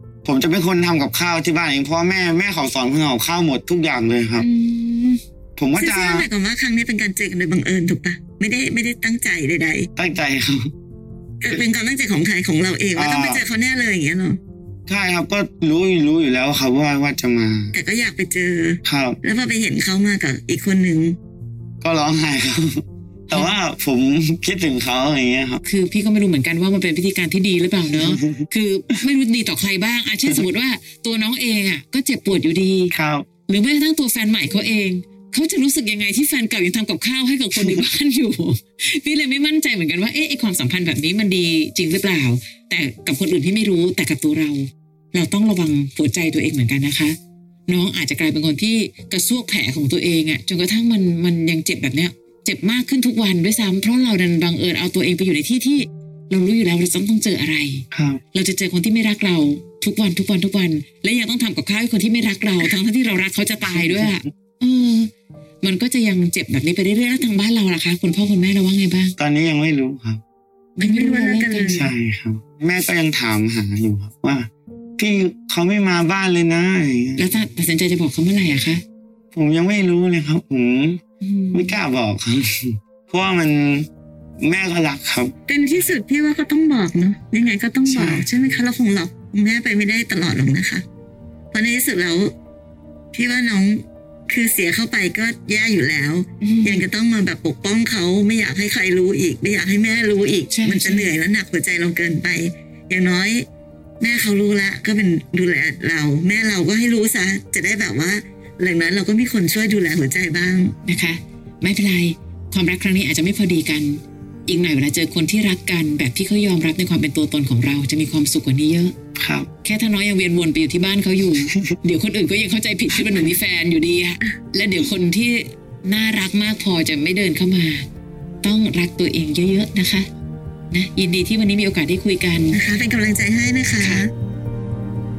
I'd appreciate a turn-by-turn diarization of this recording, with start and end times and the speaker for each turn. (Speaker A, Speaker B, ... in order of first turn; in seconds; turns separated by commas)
Speaker A: 0.2-4.5, Speaker B: 4.4-5.2, Speaker A: 5.6-6.3, Speaker B: 5.7-9.9, Speaker A: 10.0-10.7, Speaker B: 11.4-14.4, Speaker A: 12.9-13.4, Speaker A: 14.9-17.7, Speaker B: 17.7-21.2, Speaker A: 18.8-19.2, Speaker A: 21.8-25.6, Speaker C: 25.6-32.9, Speaker A: 28.0-28.5, Speaker A: 32.9-33.3, Speaker C: 33.5-47.2, Speaker A: 37.6-37.9, Speaker C: 47.7-65.1, Speaker A: 57.9-58.2, Speaker A: 63.7-64.1, Speaker C: 65.6-69.2, Speaker A: 69.2-70.2, Speaker C: 70.8-71.9, Speaker B: 70.8-71.9, Speaker A: 71.7-77.3, Speaker C: 77.2-78.8, Speaker A: 79.3-81.0, Speaker C: 81.2-81.8, Speaker A: 81.5-83.9, Speaker A: 84.4-85.3, Speaker B: 85.5-90.8, Speaker A: 87.9-88.3, Speaker B: 91.5-92.3, Speaker B: 93.1-103.5, Speaker C: 96.4-96.8, Speaker C: 100.5-101.1, Speaker B: 104.0-110.8, Speaker C: 110.8-119.0, Speaker A: 119.2-119.5, Speaker C: 119.6-127.9, Speaker A: 121.5-121.8, Speaker C: 128.4-130.1, Speaker C: 130.7-132.6, Speaker B: 132.5-134.1, Speaker C: 133.8-134.1